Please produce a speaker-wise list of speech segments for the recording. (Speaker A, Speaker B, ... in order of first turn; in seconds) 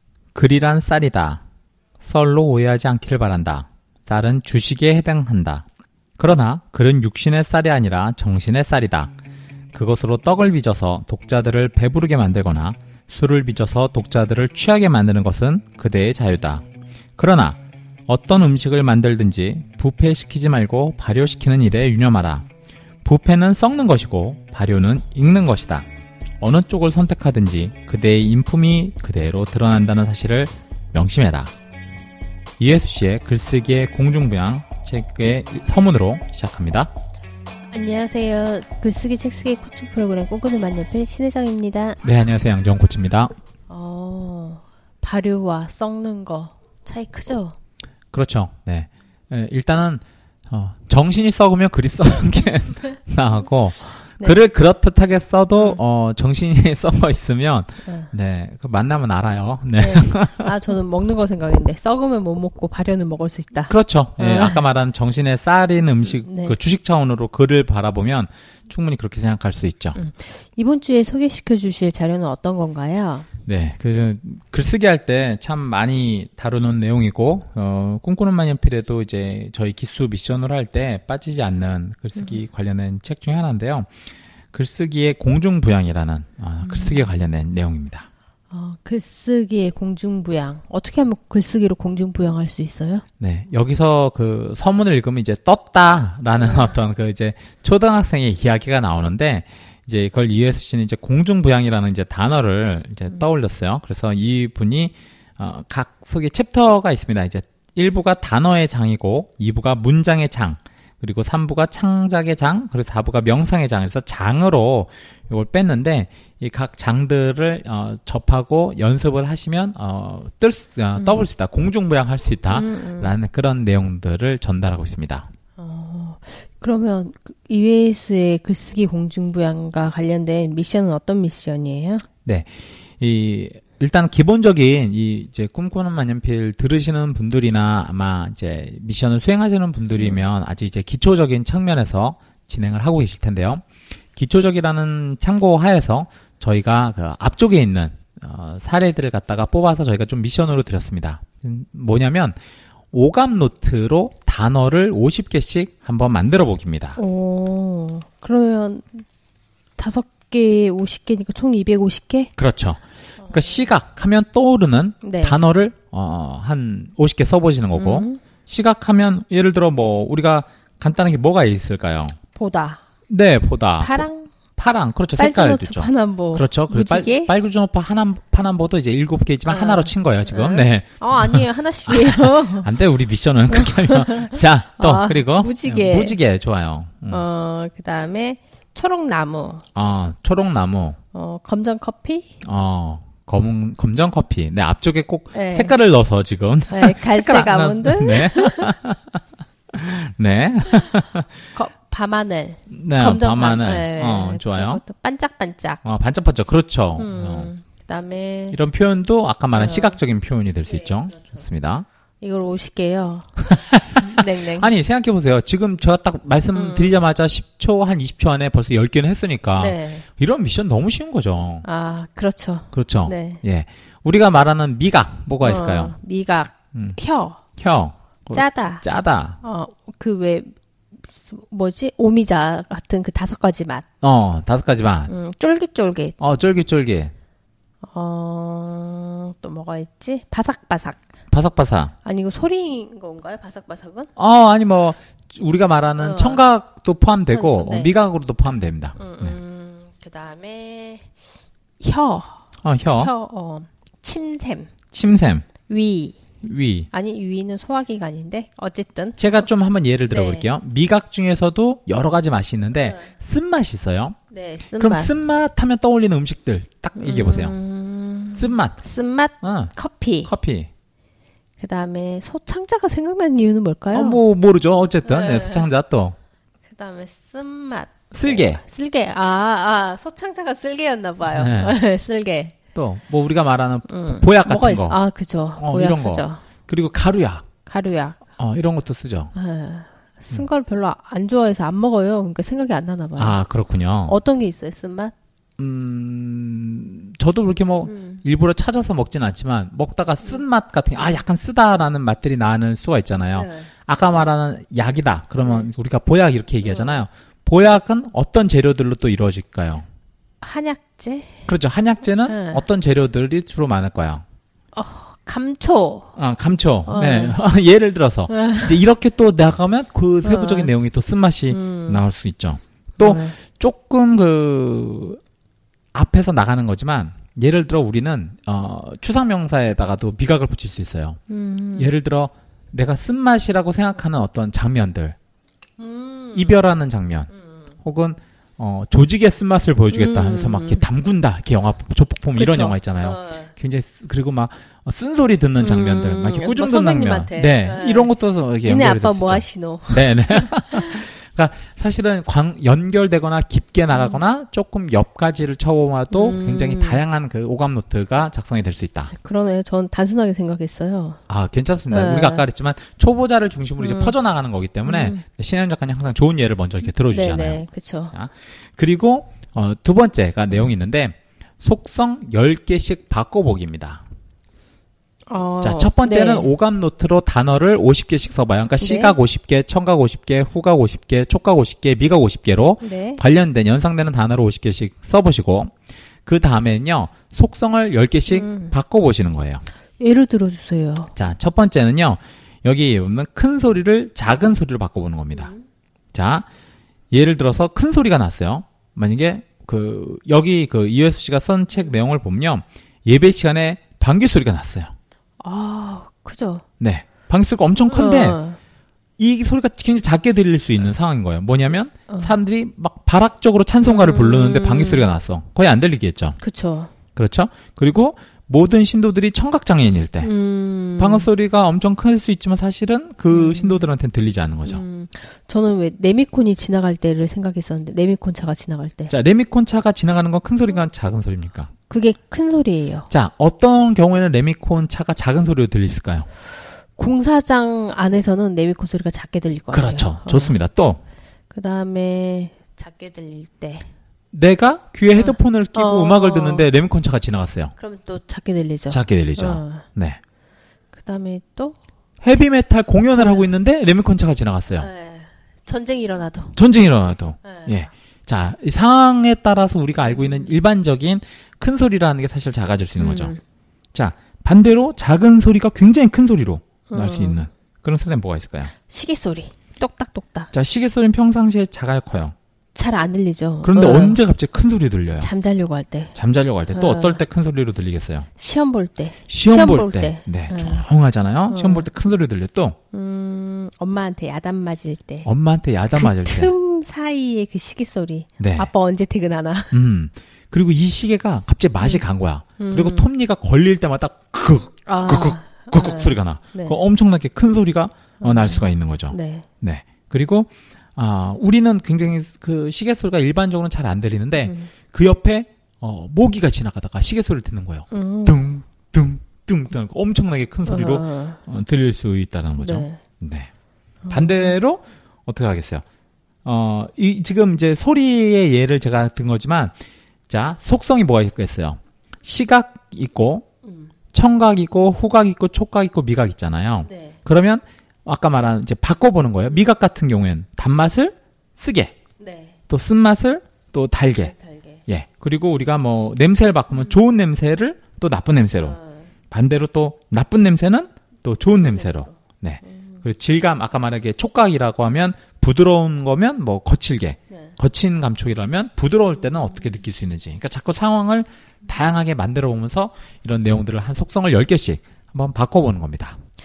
Speaker A: 0.3-1.4, 2.0-5.7, 6.2-9.1, 9.7-16.6, 17.2-22.5, 23.0-25.9, 26.4-31.5, 32.6-36.9, 42.0-43.3, 48.1-60.5, 63.6-70.0, 73.5-83.9, 84.5-88.1, 93.2-125.3, 132.2-143.6, 144.1-152.3, 152.9-157.0, 162.4-172.2, 173.1-187.2, 189.7-191.0, 192.4-199.2, 199.7-201.3, 202.7-204.8, 205.8-207.5, 208.5-211.8, 213.5-221.7, 222.7-226.0, 226.7-227.0, 227.6-229.4, 234.0-235.1, 236.2-237.1, 241.3-241.9, 244.2-249.4, 252.6-253.1, 254.9-255.4, 256.4-256.9, 259.2-264.1, 264.8-267.6, 268.3-268.8, 269.4-270.7, 273.9-276.1, 278.1-278.6, 281.2-281.8, 282.7-285.0, 285.6-287.5, 288.4-289.3, 293.2-294.2, 295.6-309.8, 311.5-314.2, 316.1-325.2, 325.9-331.2, 331.8-335.1, 336.3-337.3, 337.8-359.1, 361.3-374.0, 375.6-385.7, 386.2-389.6, 391.1-395.5, 396.1-396.4, 397.1-404.9, 406.8-408.4, 409.2-416.4, 417.1-420.3, 421.0-424.8, 429.1-431.7, 433.1-436.3, 439.7-441.0, 444.3-447.7, 448.9-450.2, 452.2-454.9, 456.5-463.3, 463.9-468.7, 470.5-472.3, 473.6-475.3, 476.1-478.3, 479.3-482.8, 485.2-486.5, 488.4-488.7, 489.7-513.5, 514.1-515.8, 516.4-519.7, 520.3-523.5, 524.1-532.0, 532.7-534.3, 534.9-538.8, 539.3-556.2
Speaker B: 37.7-42.0, 43.7-47.5, 55.5-55.8, 57.8-58.1, 59.8-64.6, 66.2-66.5, 69.9-73.3, 86.6-87.1, 88.5-93.0, 96.4-96.7, 121.0-121.2, 122.5-123.1, 125.6-132.0, 157.0-159.0, 159.8-162.3, 163.2-163.7, 165.0-165.4, 167.7-168.2, 172.3-172.8, 173.8-174.3, 175.2-177.3, 179.4-182.7, 183.5-186.2, 187.1-189.6, 191.1-192.3, 195.3-195.8, 196.7-198.8, 201.5-205.8, 207.0-208.6, 209.5-210.0, 210.8-211.2, 212.2-214.7, 216.5-217.0, 219.6-220.1, 221.6-223.4, 225.4-227.4, 228.3-230.5, 231.1-233.8, 235.1-236.2, 237.8-241.0, 242.0-244.1, 246.0-246.4, 247.3-247.9, 248.9-251.1, 251.8-254.7, 255.7-256.2, 256.9-259.4, 260.1-260.4, 264.3-265.1, 266.9-270.3, 271.6-274.2, 275.0-275.7, 276.6-282.6, 283.9-286.4, 287.6-288.2, 289.3-293.4, 294.1-295.1, 297.9-298.2, 303.3-303.7, 306.6-307.0, 310.4-311.4, 312.2-312.6, 314.7-316.1, 316.9-317.4, 318.3-318.8, 320.2-320.7, 321.5-322.0, 323.0-323.4, 331.3-331.9, 335.8-336.6, 339.9-340.8, 342.3-343.5, 345.6-351.1, 353.9-354.2, 356.1-357.0, 359.1-361.2, 361.9-362.4, 363.8-364.2, 364.8-365.2, 367.0-368.1, 375.3-376.5, 378.8-379.2, 382.8-383.2, 388.3-388.7, 390.0-391.1, 395.3-395.6, 405.4-406.6, 407.9-408.6, 412.1-412.3, 413.8-415.1, 416.4-416.9, 420.2-421.3, 423.3-423.9, 424.6-429.1, 431.9-433.1, 436.9-440.6, 441.5-443.9, 445.1-446.7, 447.8-449.9, 450.9-451.8, 453.1-453.5, 454.8-456.6, 457.4-457.8, 463.0-463.4, 466.9-467.4, 468.8-470.5, 472.7-474.2, 475.1-476.1, 476.7-477.2, 478.4-480.9, 481.5-481.9, 482.9-485.3, 485.9-489.7, 492.6-493.1, 494.9-496.8, 498.2-499.4, 504.4-504.7, 507.9-508.4, 510.6-511.4, 512.6-513.0, 514.0-514.6, 523.6-523.9, 526.8-527.2, 532.2-532.6, 534.2-534.8, 538.6-539.1, 541.5-543.0